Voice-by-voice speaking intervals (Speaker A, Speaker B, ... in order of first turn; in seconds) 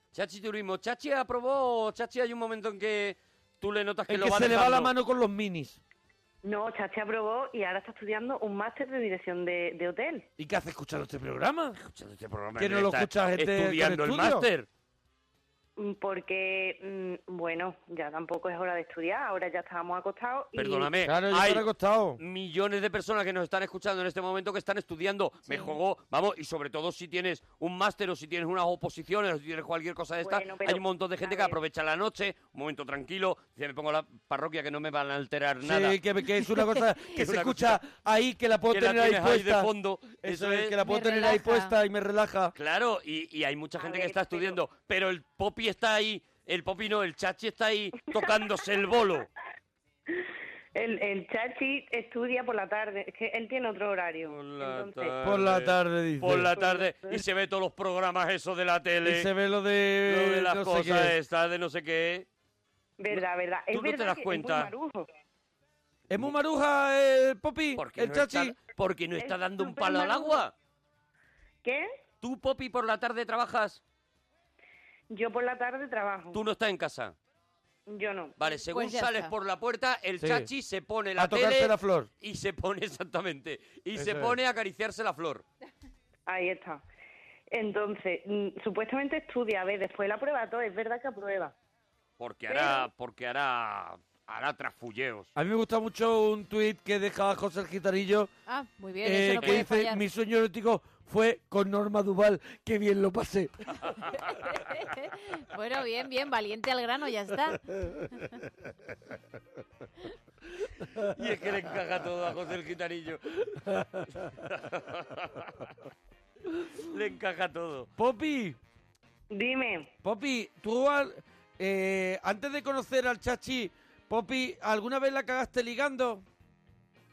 Speaker A: 0.1-4.9, 11.8-14.7, 20.6-21.7, 22.2-36.0, 37.1-37.8, 38.7-40.8, 42.5-49.3, 54.2-59.3, 60.1-62.3, 63.7-64.7, 67.8-70.5, 72.2-73.8, 76.3-77.2, 78.4-85.4, 92.2-95.3, 99.4-99.7, 111.1-113.2, 114.4-115.7, 116.8-117.9
Speaker B: 4.1-5.8, 10.4-11.8, 12.6-14.5, 21.0-22.2, 35.6-39.7, 40.2-42.5, 55.2-56.6, 59.0-61.1, 66.1-68.6, 80.2-80.5, 81.2-82.1, 84.0-84.4, 95.4-98.3, 99.0-103.5, 113.8-114.1, 118.0-118.6, 120.0-126.2
Speaker C: 6.4-10.3, 15.8-20.9, 30.2-31.6, 43.8-44.6, 50.8-55.2, 56.5-57.2, 63.0-65.1, 69.2-70.4, 71.6-71.9, 75.1-76.4, 77.9-78.4, 86.3-86.8, 87.5-91.5, 92.5-92.9, 119.3-119.9
Speaker D: 40.8-41.7, 78.6-79.3, 98.5-100.0, 104.7-107.6